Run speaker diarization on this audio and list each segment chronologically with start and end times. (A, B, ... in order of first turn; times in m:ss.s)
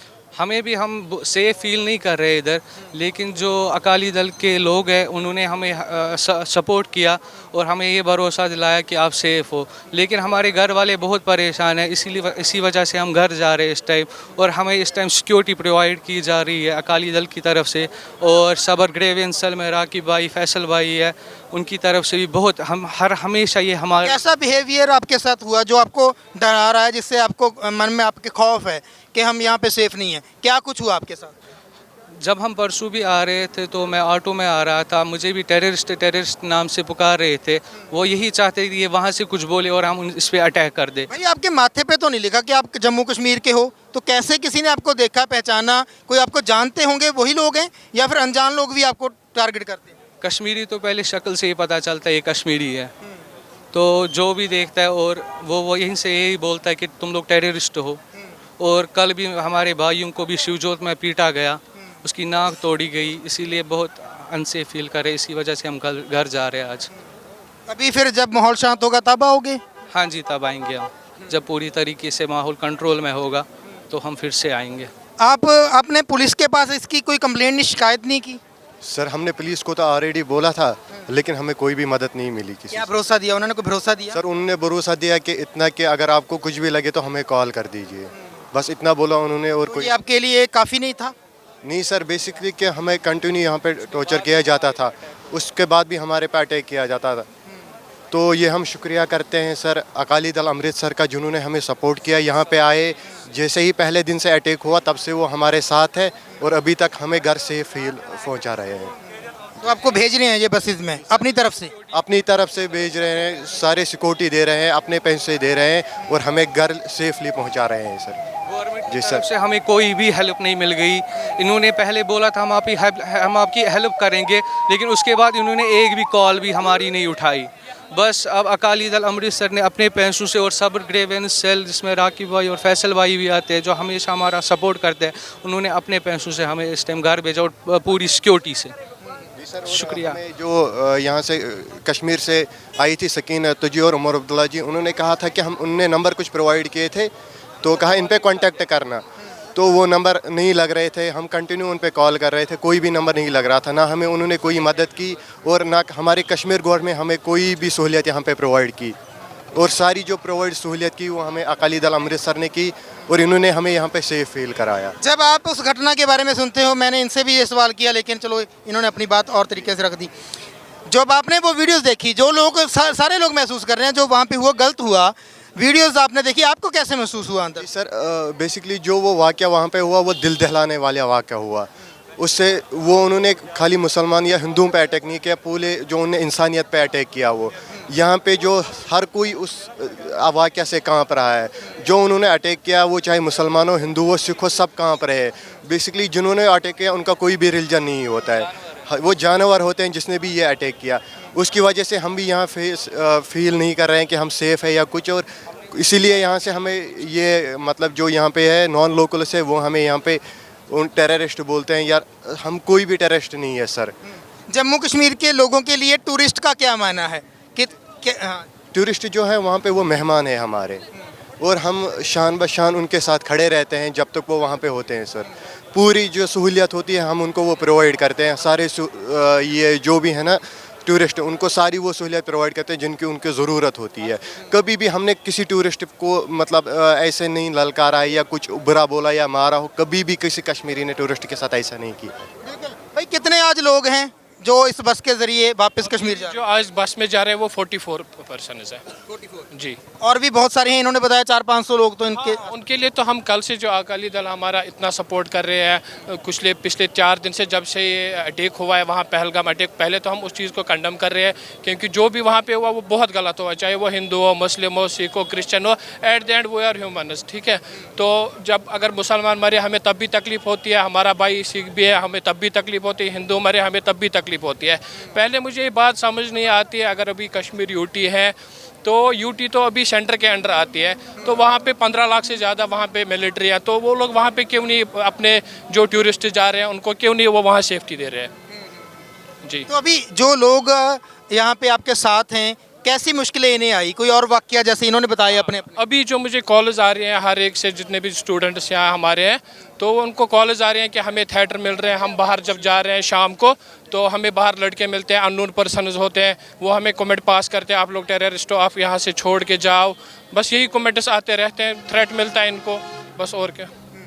0:00.4-0:24.2 A
0:24.0-0:31.4 B
0:32.2-0:41.1 A
0:41.1-0:50.0 B
0:50.2-0:52.9 A
0:53.7-0:58.0 A
0:58.6-1:06.9 A
1:07.7-1:09.6 B
1:09.9-1:14.9 A
1:15.2-1:18.4 B
1:18.8-1:22.9 C
1:22.7-1:24.2 B
1:24.1-1:30.0 C
1:29.7-1:31.1 B
1:31.6-1:37.3 C
1:38.1-1:49.0 C
1:49.6-1:51.7 B
1:51.9-1:58.2 C
1:58.5-2:18.7 A
1:58.9-1:59.2 C
2:19.4-2:27.1 C
2:19.7-2:20.2 A
2:27.6-2:39.0 C
2:39.5-2:45.0 C
2:45.0-2:50.1 B
2:50.9-2:57.7 B
2:57.6-3:34.0 C
3:34.5-3:38.5 B
3:38.7-3:40.8 C
3:41.4-4:02.3 C
4:02.4-4:06.4 B
4:05.9-4:08.8 D
4:09.5-4:09.8 D
4:10.0-4:12.5 B
4:12.2-4:48.3 D
4:49.7-4:55.8 B
4:55.8-5:13.7 D